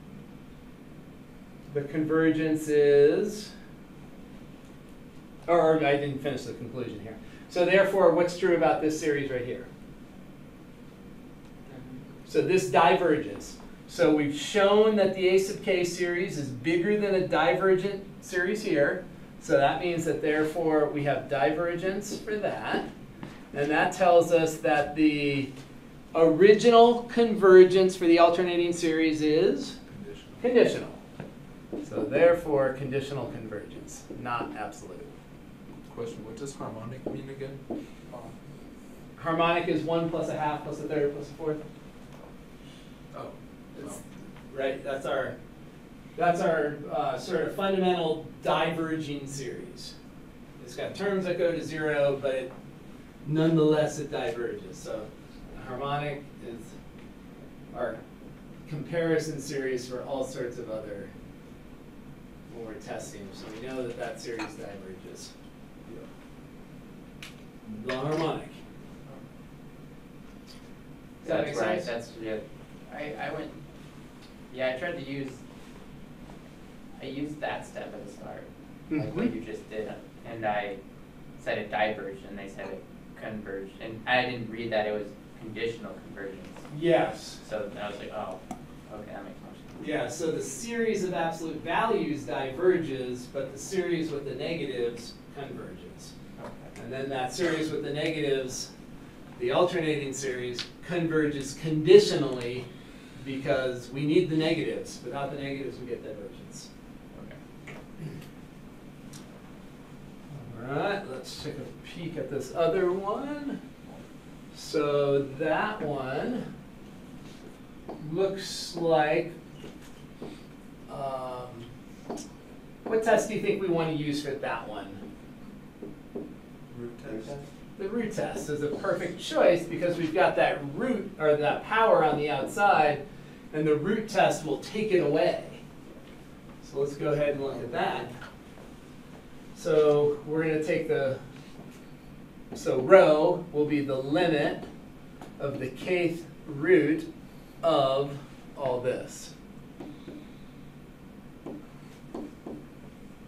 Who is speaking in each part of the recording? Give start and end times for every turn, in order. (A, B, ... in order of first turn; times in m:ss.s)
0:01.7-0:03.5 A
0:05.4-0:09.7 A
0:12.3-0:22.9 A
0:23.5-0:25.5 A
0:26.1-0:29.8 A
0:29.9-0:30.4 B
0:30.4-0:31.0 A
0:31.8-0:35.1 A
0:35.9-0:37.6 B
0:39.2-0:41.6 A
0:43.1-0:45.4 A
0:46.2-0:49.9 A
0:50.6-0:52.5 A
0:53.2-0:56.7 A
0:57.7-0:58.0 A
0:58.6-1:01.1 A
1:02.5-1:05.3 A
1:07.6-1:08.6 A
1:11.2-1:11.9 A
1:11.2-1:13.5 C
1:14.5-1:15.4 C
1:17.0-1:20.8 C
1:18.9-1:19.3 A
1:21.4-1:26.7 C
1:26.7-1:27.4 A
1:27.4-1:29.8 C
1:29.8-1:36.1 A
1:36.4-1:36.7 C
1:36.7-1:38.7 A
1:39.4-1:46.7 A
1:50.3-1:53.6 A
1:54.5-1:56.5 A
1:58.0-1:59.3 A
2:00.9-2:01.7 A
2:02.8-2:05.0 A
2:06.7-2:07.3 B
2:07.0-2:07.4 C
2:07.8-2:15.6 A
2:16.6-2:18.1 A
2:19.5-2:21.2 A
2:22.5-2:24.6 A
2:25.4-2:27.1 A
2:27.6-2:29.3 A